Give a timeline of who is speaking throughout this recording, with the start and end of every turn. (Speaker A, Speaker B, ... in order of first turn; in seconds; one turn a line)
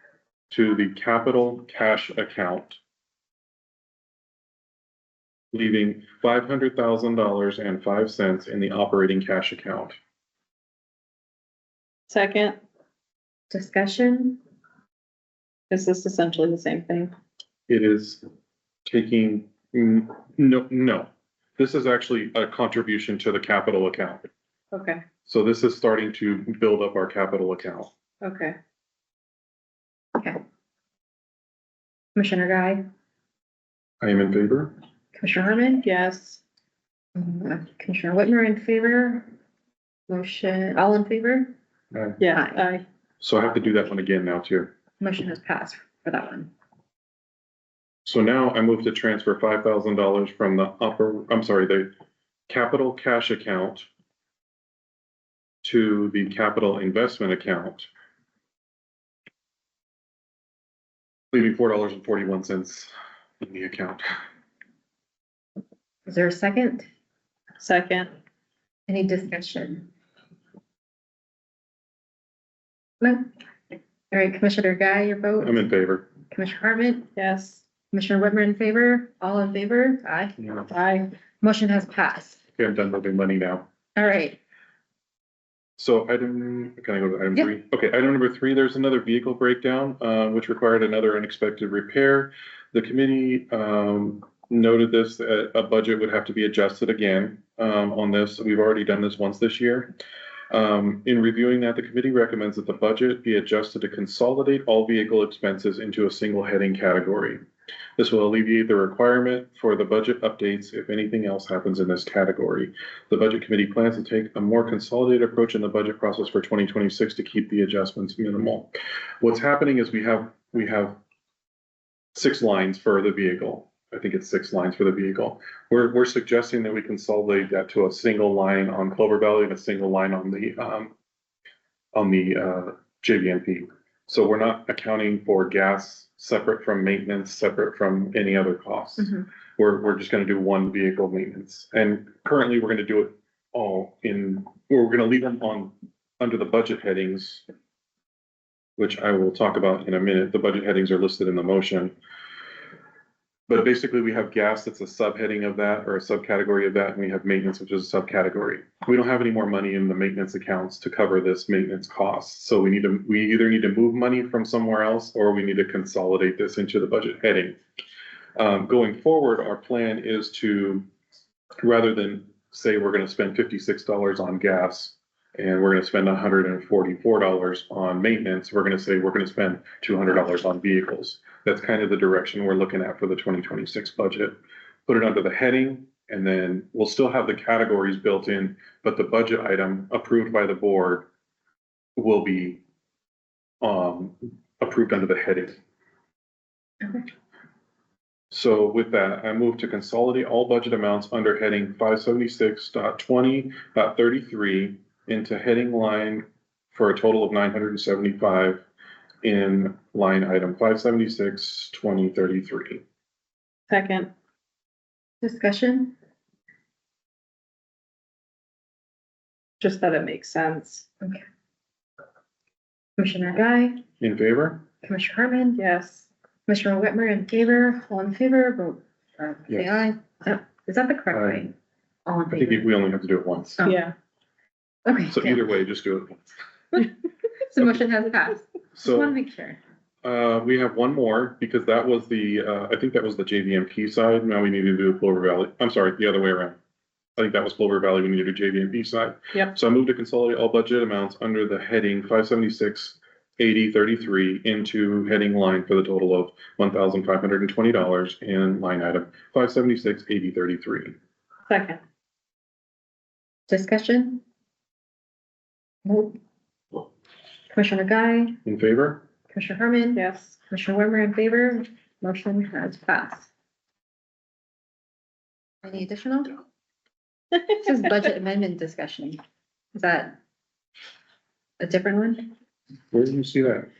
Speaker A: 0.5-2.8
Speaker A: 5.5-10.0
Speaker B: 12.1-12.6
Speaker C: 13.5-14.4
Speaker B: 15.7-17.1
Speaker A: 17.7-18.2
Speaker A: 18.9-24.2
Speaker B: 24.7-25.0
Speaker A: 25.3-27.9
Speaker B: 28.2-28.6
Speaker C: 30.1-30.4
Speaker C: 32.1-32.9
Speaker A: 34.0-34.7
Speaker C: 35.1-35.9
Speaker B: 35.8-36.4
Speaker C: 37.2-39.3
Speaker C: 40.1-41.5
Speaker A: 41.9-42.2
Speaker B: 42.2-42.9
Speaker C: 42.3-42.6
Speaker A: 43.2-44.7
Speaker C: 45.0-46.5
Speaker A: 48.0-51.9
Speaker A: 52.5-53.9
Speaker A: 55.6-57.9
Speaker A: 61.3-64.0
Speaker C: 66.1-66.9
Speaker B: 67.6-68.1
Speaker C: 68.9-69.9
Speaker C: 73.0-73.3
Speaker C: 74.1-75.6
Speaker A: 75.4-76.1
Speaker C: 76.3-77.1
Speaker B: 77.2-77.6
Speaker C: 77.9-80.4
Speaker A: 80.4-80.7
Speaker B: 80.7-81.1
Speaker C: 81.4-82.4
Speaker A: 82.6-83.7
Speaker C: 84.0-84.4
Speaker A: 85.8-99.9
Speaker A: 100.5-107.4
Speaker A: 108.0-121.0
Speaker A: 122.2-130.9
Speaker A: 131.9-147.4
Speaker A: 148.8-151.9
Speaker A: 153.5-167.6
Speaker A: 168.4-170.9
Speaker A: 171.6-191.1
Speaker A: 192.0-192.6
Speaker A: 193.6-195.6
Speaker A: 198.3-208.6
Speaker A: 209.2-212.8
Speaker B: 213.7-214.1
Speaker C: 215.2-215.9
Speaker B: 219.6-220.8
Speaker C: 223.0-223.8
Speaker A: 224.0-224.7
Speaker C: 224.8-225.6
Speaker B: 225.6-226.1
Speaker C: 226.5-231.5
Speaker A: 229.5-229.9
Speaker A: 231.1-231.5
Speaker C: 232.1-232.7
Speaker A: 232.3-233.7
Speaker B: 233.6-233.9
Speaker C: 234.8-235.5
Speaker A: 235.1-236.3
Speaker C: 237.5-239.6
Speaker A: 238.8-239.2
Speaker A: 240.0-246.6
Speaker A: 247.2-261.0
Speaker B: 261.5-261.8
Speaker C: 263.5-264.2
Speaker C: 265.8-266.2
Speaker C: 267.5-268.4
Speaker A: 268.4-269.0
Speaker C: 269.3-273.3
Speaker B: 270.0-270.4
Speaker C: 275.6-276.4
Speaker C: 277.5-279.2
Speaker C: 279.7-280.2
Speaker C: 281.6-282.3
Speaker A: 282.9-283.7